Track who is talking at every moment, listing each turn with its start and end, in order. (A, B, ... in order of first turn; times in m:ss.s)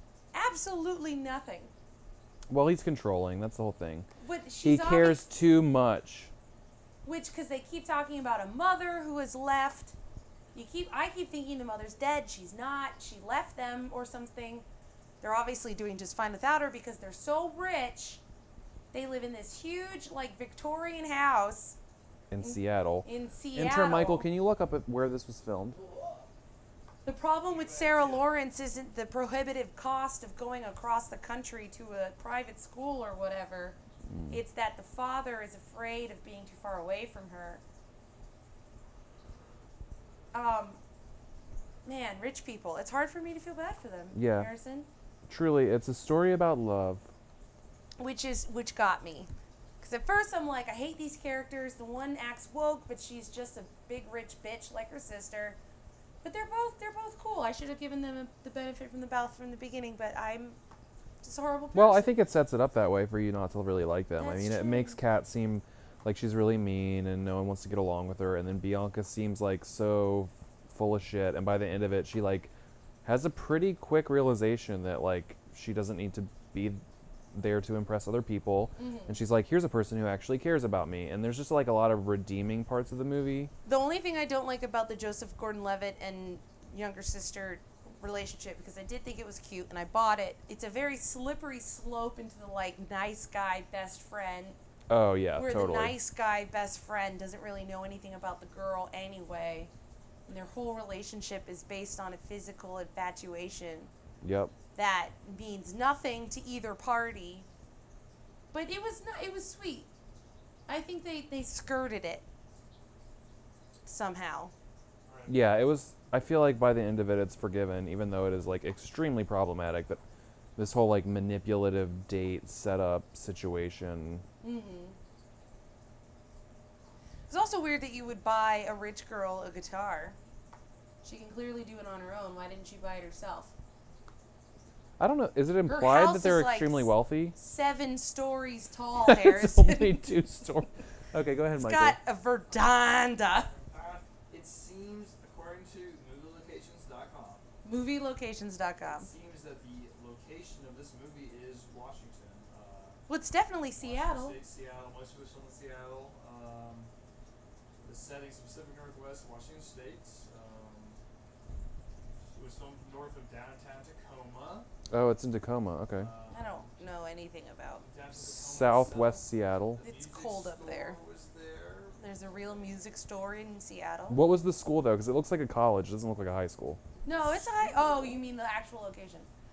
0:00.3-0:01.7 A
0:02.5-0:04.1 B
0:04.2-0:05.3 A
0:04.6-0:06.3 B
0:07.0-0:10.0 A
0:10.5-0:14.6 A
0:15.2-0:18.2 A
0:18.9-0:21.8 A
0:22.3-0:25.8 B
0:22.4-0:24.3 A
0:25.8-0:26.2 C
0:27.0-0:33.8 A
0:27.4-0:28.3 C
0:34.1-0:34.4 B
0:34.3-0:37.6 A
0:40.3-0:40.8 A
0:41.8-0:44.9 A
0:44.1-0:44.5 B
0:45.3-0:47.1 B
0:48.0-0:49.3 A
0:49.8-0:55.6 A
0:56.2-1:00.6 A
1:01.2-1:02.2 A
1:01.7-1:12.5 B
1:04.2-1:05.0 A
1:13.0-1:23.5 B
1:18.8-1:19.2 A
1:23.6-1:34.6 A
1:34.9-1:36.0 B
1:35.4-1:39.7 A
1:40.3-1:43.9 A
1:44.2-1:44.5 B
1:44.7-1:47.4 A
1:48.5-1:49.9 A
1:50.7-1:52.2 A
1:53.8-1:54.5 A
1:55.0-1:55.5 C
1:55.3-2:00.0 B
2:00.6-2:04.2 B
2:04.4-2:05.0 A
2:07.3-2:10.2 A
2:11.0-2:13.5 A
2:15.0-2:17.4 B
2:15.6-2:20.0 A
2:19.0-2:22.0 B
2:21.6-2:23.5 A
2:23.3-2:27.4 C
2:27.6-2:29.1 A
2:28.8-2:33.0 C
2:33.1-2:34.4 A
2:33.8-2:36.9 C
2:37.8-2:41.0 C
2:42.3-2:44.7 C
2:44.9-2:46.1 B
2:45.9-2:46.7 C
2:46.3-2:47.8 A
2:47.8-2:52.7 C
2:48.2-2:49.8 B
2:49.8-2:51.0 A
2:52.0-2:54.2 A
2:54.1-2:56.8 B
2:57.0-2:59.3 A
2:57.1-2:58.2 C